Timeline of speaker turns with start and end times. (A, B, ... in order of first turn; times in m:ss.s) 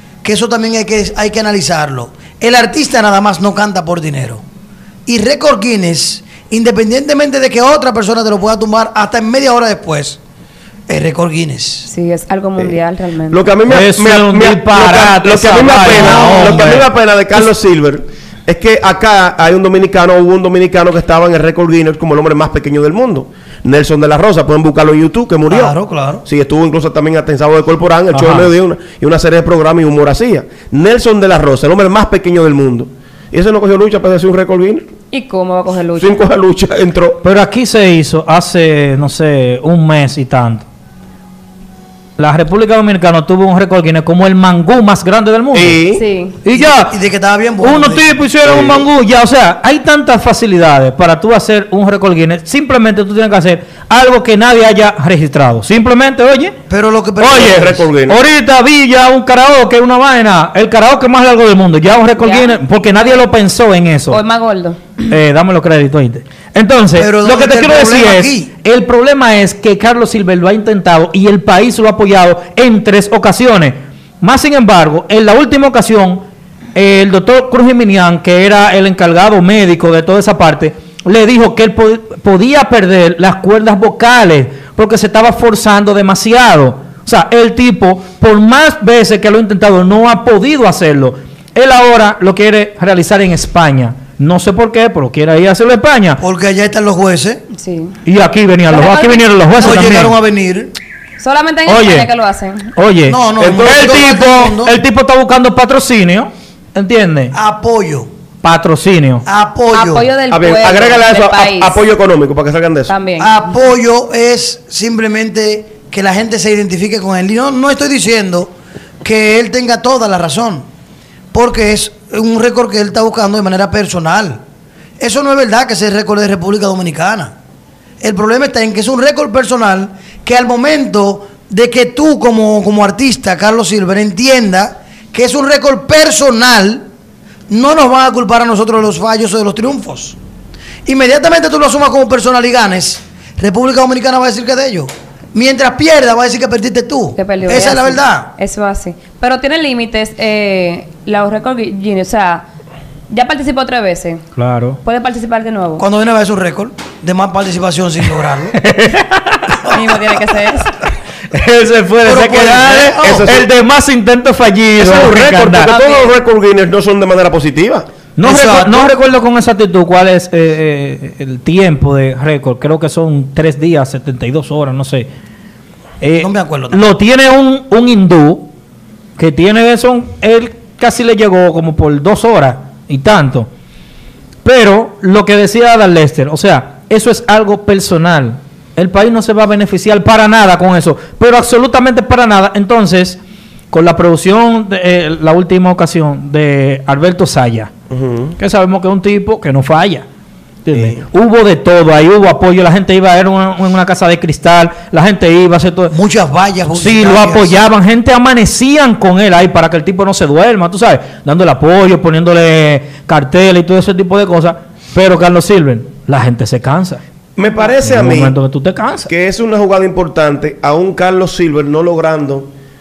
0:00.2-0:04.4 A
0:05.1-0:10.2 A
0:10.9-0:11.9 A
0:11.9-0:13.4 B
0:13.3-0:25.7 C
0:13.7-0:17.4 D
0:25.5-0:26.2 A
0:26.2-0:34.9 C
0:28.1-0:28.5 D
0:35.1-0:36.2 B
0:36.0-0:37.2 C
0:37.2-0:40.7 D
0:42.2-0:45.8 D
0:45.5-0:46.0 C
0:45.9-0:46.4 B
0:46.4-0:46.9 D
0:46.5-0:48.2 A
0:47.6-0:56.6 D
0:48.4-0:48.8 C
0:56.7-0:57.8 A
0:57.2-1:04.2 D
0:57.8-0:58.2 C
1:02.2-1:02.6 B
1:04.1-1:05.1 B
1:05.1-1:16.2 D
1:07.0-1:08.5 A
1:16.8-1:36.2 D
1:36.2-1:37.4 A
1:37.5-1:38.0 B
1:38.0-1:40.2 D
1:38.7-1:39.2 B
1:39.6-1:40.7 A
1:41.2-1:42.7 B
1:41.7-1:42.1 D
1:42.8-1:47.3 D
1:43.1-1:44.8 A
1:43.4-1:43.9 C
1:47.3-1:48.1 A
1:48.4-1:49.2 D
1:49.3-1:50.1 A
1:49.7-1:51.8 B
1:50.3-1:53.0 C
1:52.9-1:53.3 B
1:53.2-2:00.6 A
2:01.3-2:04.4 A
2:05.0-2:07.4 A
2:08.0-2:16.8 A
2:17.5-2:20.2 A
2:20.8-2:28.3 A
2:27.2-2:32.5 B
2:33.1-2:34.2 B
2:34.4-2:34.8 D
2:34.8-2:35.8 B
2:35.8-2:38.6 A
2:38.6-2:39.8 D
2:39.7-2:40.7 B
2:41.3-2:45.7 D
2:42.0-2:43.3 A
2:43.0-2:43.5 C
2:44.8-2:47.9 C
2:45.6-2:46.1 B
2:48.2-2:55.1 D
2:48.2-2:49.0 A
2:56.0-2:58.5 D
2:56.2-2:56.8 A
2:59.2-3:03.5 D
3:04.4-3:13.2 D
3:13.7-3:17.7 D
3:17.9-3:18.3 C
3:18.4-3:20.1 D
3:20.6-3:25.9 D
3:25.9-3:27.6 A
3:26.7-3:37.0 D
3:37.4-3:38.4 C
3:37.8-3:39.1 D
3:39.1-3:42.5 C